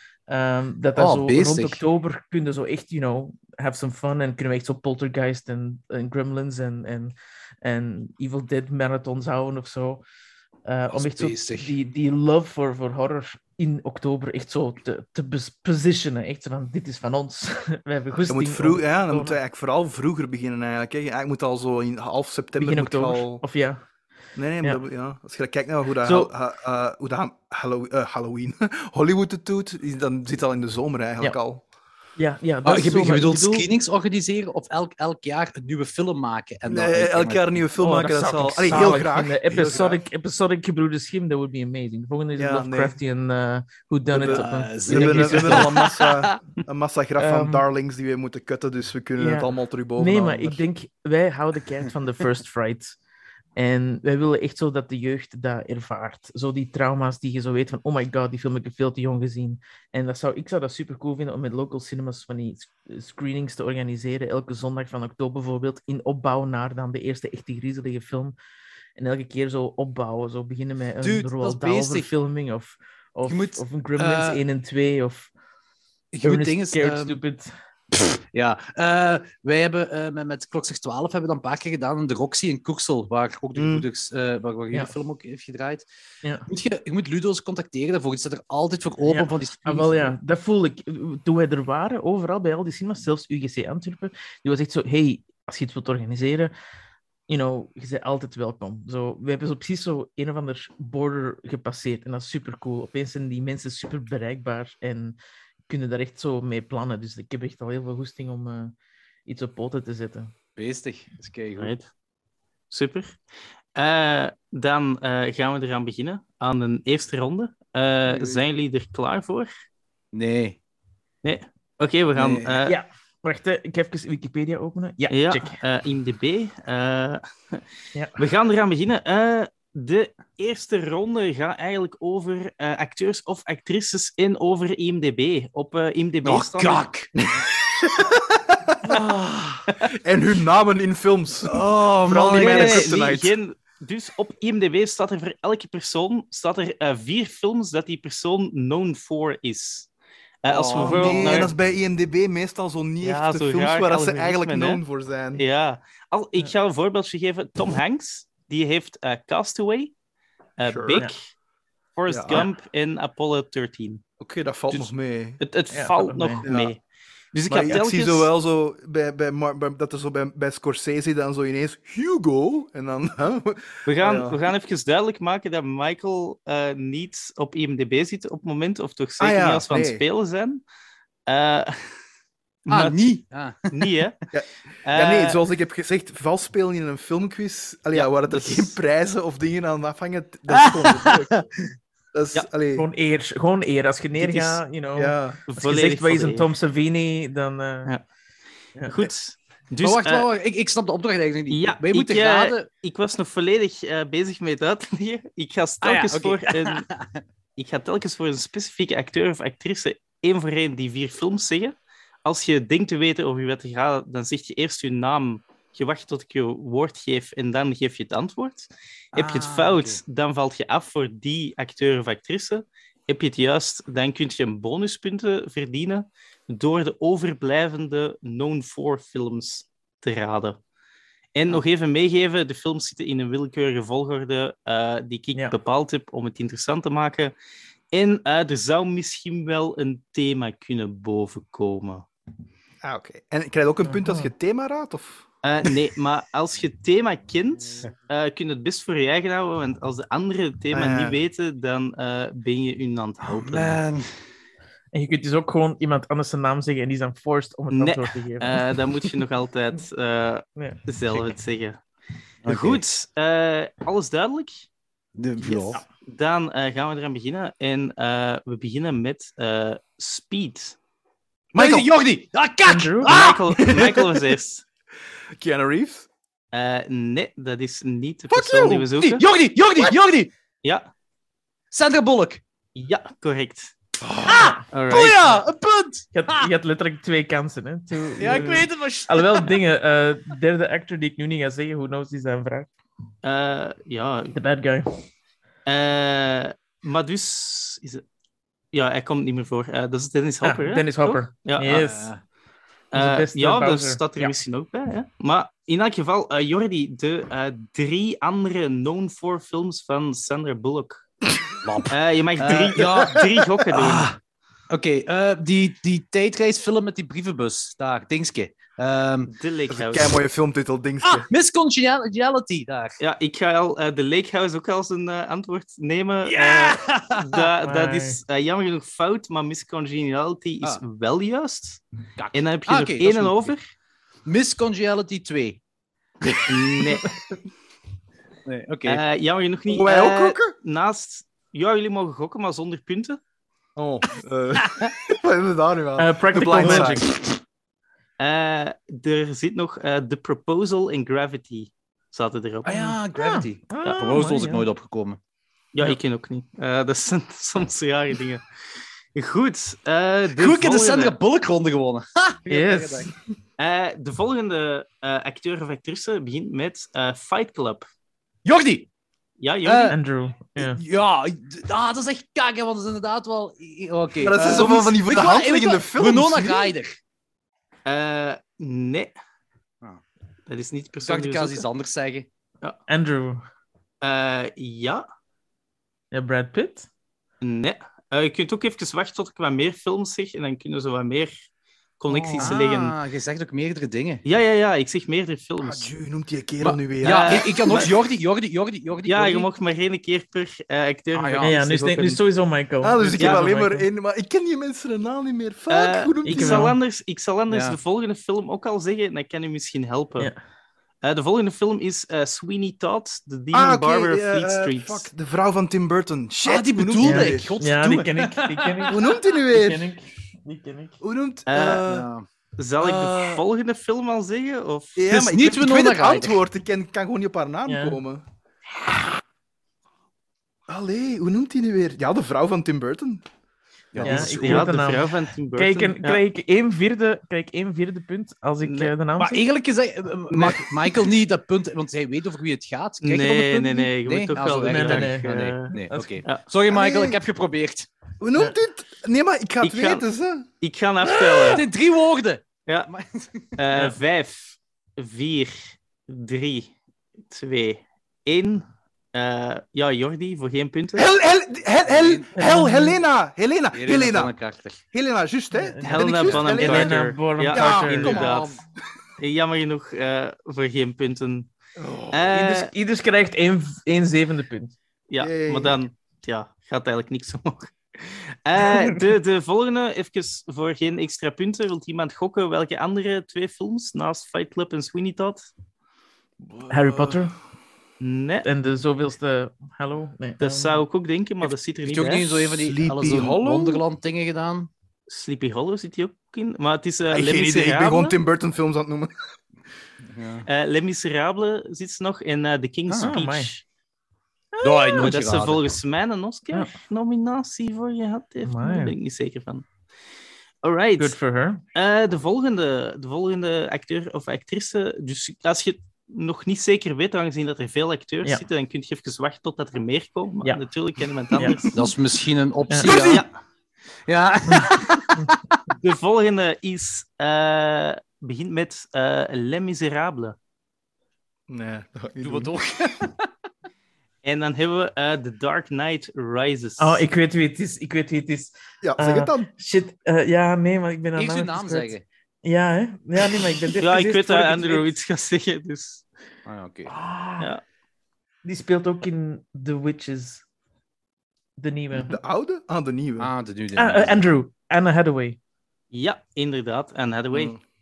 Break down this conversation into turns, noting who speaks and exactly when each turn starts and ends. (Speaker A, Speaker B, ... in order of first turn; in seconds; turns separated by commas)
Speaker A: 0.3-10.0, Speaker B: 0.9-1.8, Speaker A: 10.7-19.4, Speaker B: 10.9-11.7, Speaker C: 18.3-23.4, Speaker A: 22.6-23.8, Speaker C: 24.4-31.6, Speaker A: 26.0-26.3, Speaker A: 32.2-33.7, Speaker B: 32.6-37.6, Speaker C: 36.7-40.0, Speaker A: 37.8-45.8, Speaker B: 38.7-39.0, Speaker C: 42.4-43.0, Speaker B: 44.1-46.4, Speaker C: 44.2-50.6, Speaker A: 47.2-47.7, Speaker A: 49.2-53.0, Speaker A: 53.5-68.3, Speaker A: 69.0-75.3, Speaker B: 71.0-72.1, Speaker B: 73.3-74.4, Speaker B: 76.1-77.2, Speaker A: 76.2-77.5, Speaker B: 77.9-85.8, Speaker C: 83.5-83.8, Speaker B: 86.5-90.2, Speaker A: 89.1-96.5, Speaker A: 97.3-105.2, Speaker A: 105.7-108.7, Speaker A: 109.2-110.3, Speaker B: 110.5-111.7, Speaker D: 111.6-111.8, Speaker D: 112.7-113.2, Speaker D: 113.7-119.5, Speaker C: 118.1-118.4, Speaker B: 120.1-120.6, Speaker D: 121.2-122.7, Speaker B: 122.2-122.7, Speaker A: 122.7-125.6, Speaker D: 125.1-127.6, Speaker D: 128.2-136.8, Speaker B: 136.2-137.1, Speaker C: 137.2-139.1, Speaker B: 138.9-139.7, Speaker C: 139.8-143.3, Speaker B: 141.5-142.9, Speaker D: 142.3-149.9, Speaker D: 150.4-151.5, Speaker B: 150.5-151.5, Speaker C: 150.7-155.4, Speaker D: 153.0-154.8, Speaker D: 155.3-159.9, Speaker D: 160.6-161.2, Speaker C: 160.7-161.0, Speaker D: 161.9-164.0, Speaker C: 162.1-162.4, Speaker C: 164.2-165.4, Speaker D: 164.7-166.8, Speaker A: 165.7-166.4, Speaker C: 166.4-166.7, Speaker D: 167.3-168.3, Speaker C: 167.5-174.4, Speaker D: 173.8-180.6, Speaker C: 179.2-180.0, Speaker D: 181.3-181.9, Speaker D: 182.7-183.1, Speaker B: 182.7-184.0, Speaker D: 183.7-184.2, Speaker C: 184.3-191.3, Speaker D: 184.8-185.4, Speaker D: 187.9-188.8, Speaker B: 190.5-191.5, Speaker C: 192.1-192.8, Speaker A: 192.7-197.9, Speaker C: 194.9-195.4, Speaker D: 195.5-196.5, Speaker D: 198.8-200.3, Speaker B: 199.8-202.7, Speaker D: 201.5-206.9, Speaker B: 205.8-207.2, Speaker D: 207.6-230.6, Speaker B: 219.1-220.0, Speaker D: 231.3-237.3, Speaker D: 237.9-242.1, Speaker C: 242.8-245.2, Speaker A: 243.8-244.3, Speaker D: 245.4-253.8, Speaker C: 250.7-251.2, Speaker B: 253.2-254.1, Speaker A: 254.9-258.6, Speaker D: 257.7-261.8, Speaker B: 262.4-262.8, Speaker D: 262.4-264.6, Speaker B: 265.1-265.8, Speaker D: 265.4-270.8, Speaker C: 271.5-271.9, Speaker B: 271.5-273.7, Speaker A: 272.6-273.2, Speaker D: 273.0-274.6, Speaker C: 273.5-274.2, Speaker C: 275.4-276.1, Speaker D: 276.5-279.2, Speaker C: 278.3-278.8, Speaker B: 278.9-280.3, Speaker B: 281.7-282.4, Speaker D: 282.7-283.7, Speaker C: 284.0-284.5, Speaker B: 284.2-286.5, Speaker A: 284.3-284.6, Speaker D: 284.7-285.4, Speaker A: 286.1-292.7, Speaker B: 288.1-289.6, Speaker D: 293.2-294.4, Speaker A: 294.3-295.0, Speaker D: 295.6-298.0, Speaker D: 298.7-301.9, Speaker A: 300.4-302.1, Speaker B: 301.6-302.2, Speaker D: 302.9-311.0, Speaker A: 302.9-304.3, Speaker B: 311.6-314.2, Speaker D: 311.9-314.1, Speaker C: 312.8-313.2, Speaker B: 314.7-319.3, Speaker D: 319.3-320.2, Speaker C: 319.7-321.3, Speaker B: 321.0-323.0, Speaker D: 323.0-331.8, Speaker B: 326.2-327.4, Speaker A: 327.3-328.2, Speaker B: 332.2-333.5, Speaker D: 332.3-333.6, Speaker B: 334.2-335.6, Speaker D: 336.5-337.1, Speaker B: 338.4-339.0, Speaker D: 338.8-343.2, Speaker C: 339.7-340.5, Speaker C: 343.8-347.2, Speaker A: 346.0-347.1, Speaker D: 348.2-352.8, Speaker B: 352.6-355.2, Speaker A: 352.7-354.6, Speaker D: 355.7-358.4, Speaker D: 359.1-361.1, Speaker B: 360.3-363.1, Speaker A: 362.5-363.2, Speaker D: 363.6-367.8, Speaker B: 368.4-368.9, Speaker D: 369.4-370.0, Speaker B: 369.6-370.0, Speaker A: 369.9-370.8, Speaker B: 370.6-377.0, Speaker C: 374.2-376.7, Speaker D: 377.9-379.1, Speaker D: 380.5-381.6, Speaker B: 381.0-382.3, Speaker A: 382.9-383.4, Speaker D: 384.0-385.0, Speaker A: 386.1-386.9, Speaker D: 387.4-391.3, Speaker D: 392.0-392.9, Speaker B: 392.3-394.2, Speaker D: 394.2-395.9, Speaker C: 395.6-397.9, Speaker B: 396.6-399.5, Speaker D: 397.0-397.9, Speaker D: 399.0-402.2, Speaker B: 401.1-401.5, Speaker A: 401.4-403.9, Speaker C: 402.8-406.7, Speaker D: 403.2-403.4, Speaker D: 405.7-410.3, Speaker A: 406.2-406.8, Speaker B: 407.5-407.8, Speaker D: 411.0-415.1, Speaker C: 413.5-417.5, Speaker B: 416.4-419.1, Speaker A: 417.0-421.0, Speaker C: 418.9-419.9, Speaker C: 421.0-422.1, Speaker D: 421.5-421.9, Speaker B: 421.8-422.2, Speaker D: 422.6-425.1, Speaker C: 422.8-423.4, Speaker C: 424.9-428.2, Speaker B: 425.1-426.4, Speaker A: 427.6-428.0, Speaker C: 430.7-433.2, Speaker B: 433.9-434.8, Speaker D: 434.0-436.2, Speaker A: 434.0-439.4, Speaker D: 438.6-438.9, Speaker B: 439.2-447.9, Speaker D: 440.3-440.7, Speaker D: 443.0-446.4, Speaker A: 444.7-446.2, Speaker C: 446.7-447.2, Speaker C: 448.2-450.5, Speaker D: 449.6-450.0, Speaker D: 450.6-451.6, Speaker B: 451.4-453.5, Speaker D: 453.6-456.7, Speaker D: 457.3-461.1, Speaker C: 460.9-464.3, Speaker B: 461.8-462.3, Speaker A: 462.4-463.0, Speaker B: 463.7-464.8, Speaker C: 464.9-466.9, Speaker A: 465.5-468.2, Speaker D: 465.8-468.6, Speaker C: 467.5-468.5, Speaker B: 467.5-468.6, Speaker D: 469.2-471.5, Speaker C: 471.8-472.3, Speaker D: 472.1-472.7, Speaker A: 472.3-474.7, Speaker D: 475.1-485.5, Speaker C: 475.2-475.8, Speaker A: 478.7-478.9, Speaker C: 486.4-487.2, Speaker A: 486.7-487.3, Speaker D: 488.0-488.4, Speaker A: 488.4-490.8, Speaker D: 490.4-492.4, Speaker B: 491.9-494.7, Speaker C: 492.3-493.8, Speaker D: 495.1-498.2, Speaker C: 497.1-499.1, Speaker B: 500.0-500.4, Speaker D: 500.4-503.6, Speaker B: 502.9-503.1, Speaker A: 503.0-503.5, Speaker A: 504.5-505.1, Speaker B: 504.6-505.7, Speaker D: 505.0-509.6, Speaker A: 508.4-508.9, Speaker D: 510.6-511.1, Speaker A: 511.0-511.6, Speaker D: 511.7-521.9, Speaker A: 521.3-521.6, Speaker B: 521.7-523.2, Speaker D: 522.8-523.3, Speaker B: 524.0-525.5, Speaker A: 524.5-525.3, Speaker D: 525.8-530.4, Speaker C: 531.5-532.5, Speaker B: 532.2-533.2, Speaker D: 534.2-537.0, Speaker A: 536.8-544.9, Speaker C: 538.8-539.5, Speaker B: 541.1-542.0, Speaker D: 543.8-546.0, Speaker B: 546.5-546.9, Speaker A: 546.9-547.5, Speaker A: 548.4-550.4, Speaker A: 551.6-552.2, Speaker C: 551.9-553.3, Speaker B: 553.2-554.2, Speaker A: 553.8-555.4, Speaker D: 555.9-557.5, Speaker C: 557.3-557.6